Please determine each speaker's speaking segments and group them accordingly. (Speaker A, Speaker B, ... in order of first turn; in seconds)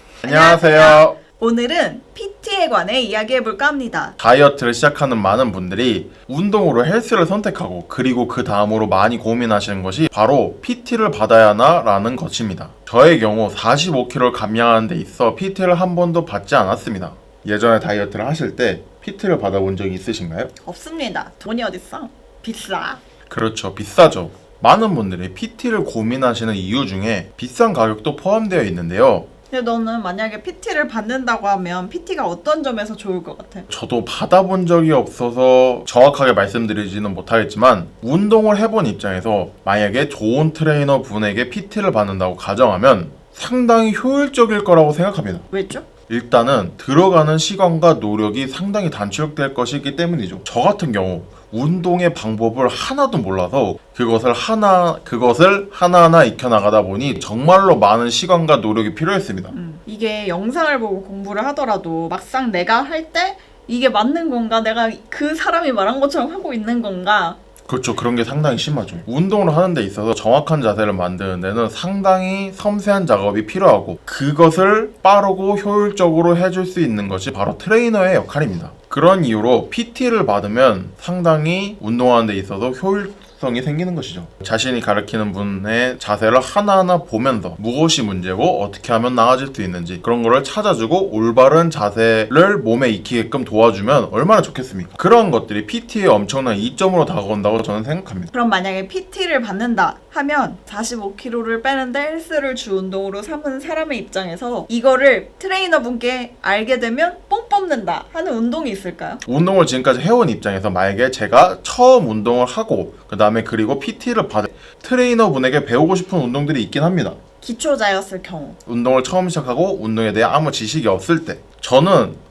Speaker A: 0.2-1.2, 4.2-20.5, 23.3-29.3, 33.7-45.5, 46.1-59.5, 67.7-98.3, 109.3-117.2, 118.7-122.2
Speaker B: 0.2-4.2, 20.6-23.0, 29.5-33.7, 45.5-45.9, 59.5-67.4, 98.3-109.2, 117.4-118.6